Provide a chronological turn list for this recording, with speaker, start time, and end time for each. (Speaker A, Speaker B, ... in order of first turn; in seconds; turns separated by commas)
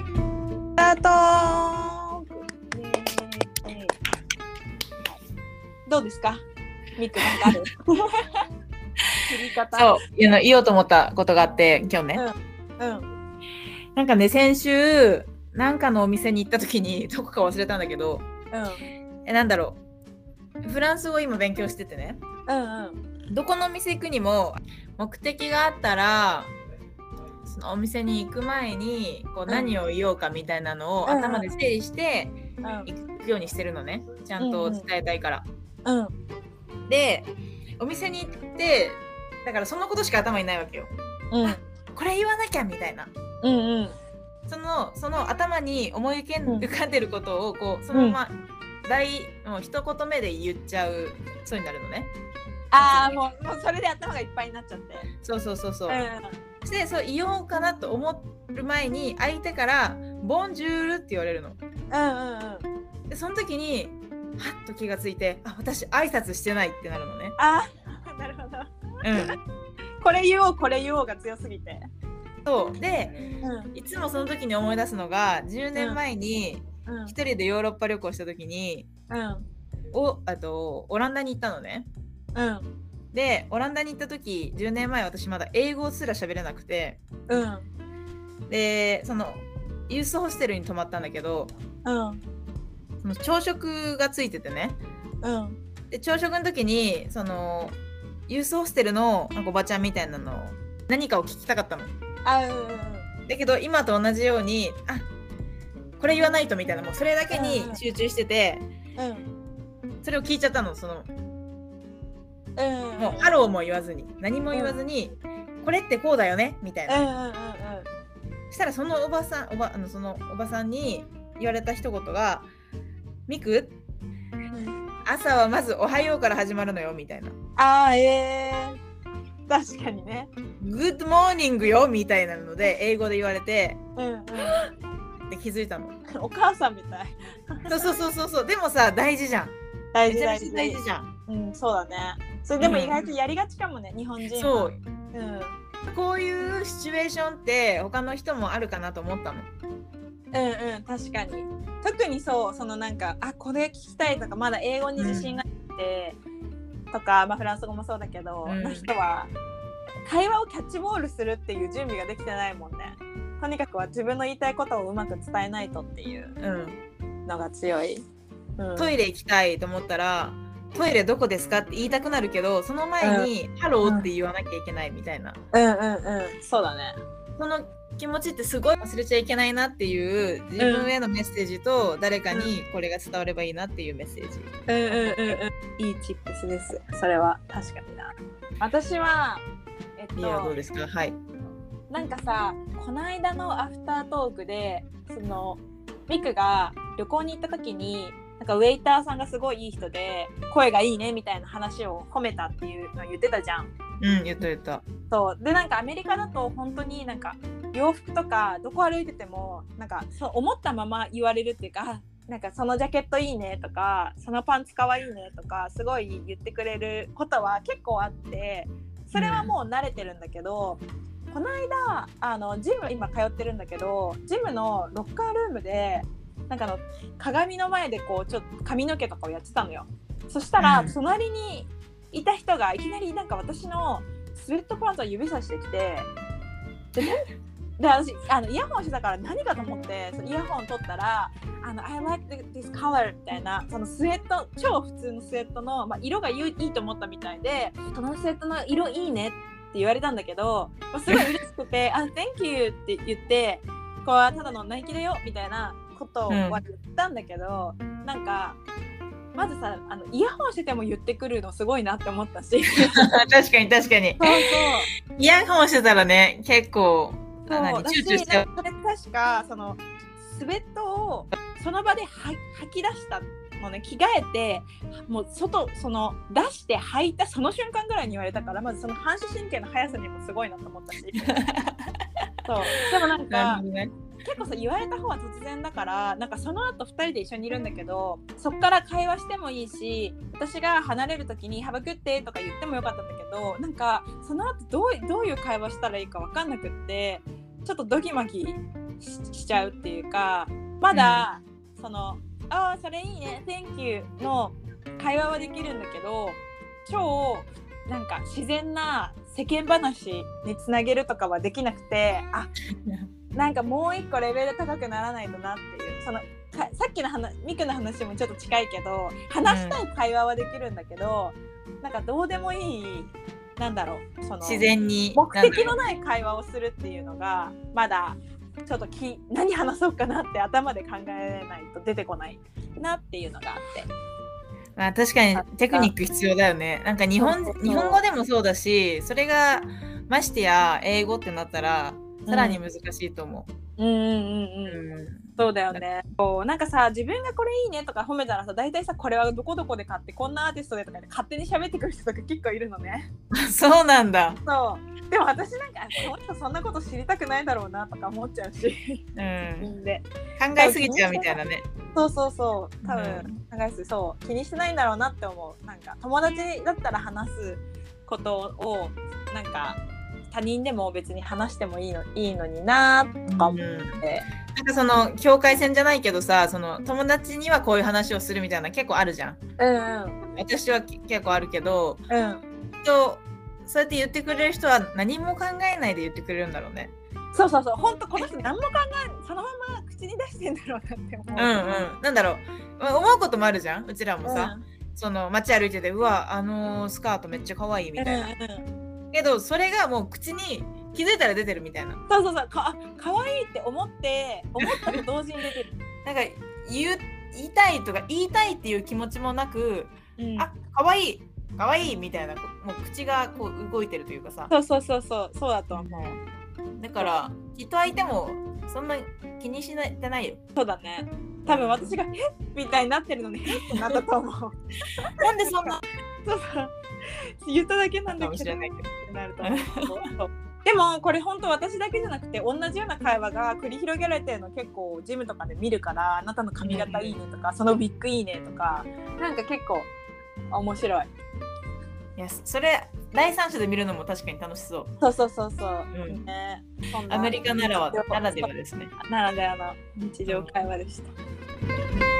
Speaker A: 0.8-3.9, Speaker A: 5.9-6.4, Speaker A: 7.0-8.3, Speaker A: 9.3-10.0, Speaker B: 9.7-12.2, Speaker A: 12.1-13.1, Speaker B: 13.9-18.2, Speaker A: 18.5-18.9, Speaker B: 19.2-19.8, Speaker B: 20.6-22.2, Speaker A: 22.5-23.0, Speaker B: 23.3-26.5, Speaker B: 27.4-35.5, Speaker A: 31.0-31.5, Speaker A: 32.6-32.9, Speaker A: 34.4-34.9, Speaker A: 35.8-36.1, Speaker B: 36.9-40.9, Speaker A: 41.3-41.6, Speaker B: 41.4-43.1, Speaker A: 43.4-43.9, Speaker B: 44.5-52.1, Speaker A: 47.9-48.2, Speaker A: 52.7-55.1, Speaker B: 52.8-53.2, Speaker B: 55.2-56.0, Speaker A: 55.9-56.4, Speaker B: 56.6-61.6, Speaker A: 61.9-62.7, Speaker B: 63.1-67.3, Speaker A: 67.4-68.7, Speaker B: 69.0-69.4, Speaker A: 70.0-71.9, Speaker B: 72.4-73.2, Speaker A: 73.4-73.7, Speaker B: 73.7-78.9, Speaker A: 75.7-76.0, Speaker A: 76.8-77.1, Speaker A: 79.1-79.5, Speaker B: 79.9-81.9, Speaker A: 82.3-82.7, Speaker B: 83.1-87.0, Speaker A: 87.3-87.7, Speaker B: 88.5-91.5, Speaker A: 91.8-92.2, Speaker B: 93.0-94.8, Speaker A: 95.2-95.6, Speaker B: 95.9-97.8, Speaker B: 98.3-101.9, Speaker A: 102.2-103.1, Speaker B: 103.2-105.1, Speaker B: 106.0-108.7, Speaker A: 107.3-107.8, Speaker A: 109.0-109.3, Speaker B: 110.0-111.1, Speaker A: 112.6-113.3, Speaker B: 113.0-117.0, Speaker A: 114.5-114.8, Speaker A: 116.9-117.9, Speaker B: 118.5-122.5, Speaker B: 123.3-123.8, Speaker B: 125.0-127.3, Speaker A: 127.6-128.8, Speaker A: 129.5-130.3, Speaker B: 130.6-133.8, Speaker A: 133.9-134.6, Speaker B: 134.4-134.6, Speaker B: 135.3-136.0, Speaker A: 136.1-138.0, Speaker B: 137.7-139.6, Speaker A: 139.9-145.6, Speaker B: 140.1-141.1, Speaker B: 142.6-143.0, Speaker B: 144.3-144.8, Speaker B: 145.8-149.5, Speaker A: 150.3-156.2, Speaker B: 155.0-155.4, Speaker A: 156.9-159.3, Speaker B: 158.4-158.9, Speaker A: 160.1-166.4, Speaker B: 166.4-166.8, Speaker A: 167.2-168.1, Speaker A: 168.6-168.9, Speaker B: 168.8-175.4, Speaker A: 173.0-173.3, Speaker A: 173.8-174.1, Speaker A: 175.5-176.9, Speaker B: 177.4-185.4, Speaker A: 180.6-180.9, Speaker A: 184.7-189.4, Speaker A: 190.0-190.6, Speaker B: 190.2-191.2, Speaker A: 191.9-203.7, Speaker B: 204.0-204.8, Speaker A: 205.1-236.1, Speaker B: 219.1-219.5, Speaker B: 230.6-230.9, Speaker A: 236.9-237.2, Speaker A: 237.8-258.6, Speaker B: 256.3-256.6, Speaker A: 259.4-263.1, Speaker B: 262.9-264.5, Speaker A: 264.2-264.9, Speaker B: 265.1-268.4, Speaker A: 267.5-281.4, Speaker B: 281.3-282.0, Speaker A: 282.4-283.6, Speaker B: 283.2-283.9, Speaker A: 284.2-312.5, Speaker B: 300.9-301.2, Speaker A: 313.3-333.9, Speaker B: 319.4-319.8, Speaker B: 324.4-325.7, Speaker B: 334.8-343.5, Speaker A: 335.3-335.9, Speaker A: 337.2-338.0, Speaker A: 342.3-342.6, Speaker A: 343.8-344.8, Speaker B: 344.7-345.8, Speaker A: 345.4-353.1, Speaker B: 353.3-354.4, Speaker A: 354.4-359.0, Speaker B: 359.1-359.7, Speaker A: 359.6-361.4, Speaker B: 360.4-361.7, Speaker A: 361.9-369.8, Speaker B: 362.8-363.4, Speaker A: 370.3-374.3, Speaker B: 373.3-379.4, Speaker A: 379.6-380.2, Speaker B: 380.4-382.1, Speaker A: 382.1-382.4, Speaker B: 382.8-386.9, Speaker A: 387.3-391.9, Speaker B: 391.3-398.3, Speaker A: 394.2-394.6, Speaker A: 398.0-398.6, Speaker B: 399.1-402.0, Speaker A: 402.1-405.7, Speaker B: 406.0-414.5, Speaker A: 410.2-410.5, Speaker A: 414.5-416.0, Speaker B: 415.7-416.2, Speaker B: 416.8-420.4, Speaker A: 420.5-424.6, Speaker B: 421.4-421.9, Speaker B: 423.5-424.0, Speaker B: 425.2-425.8, Speaker A: 425.4-439.9, Speaker B: 428.1-428.9, Speaker B: 429.4-429.9, Speaker B: 436.6-437.1, Speaker A: 440.5-441.1, Speaker B: 442.2-444.9, Speaker A: 445.0-451.1, Speaker B: 445.9-446.2, Speaker B: 447.1-448.9, Speaker B: 450.3-450.6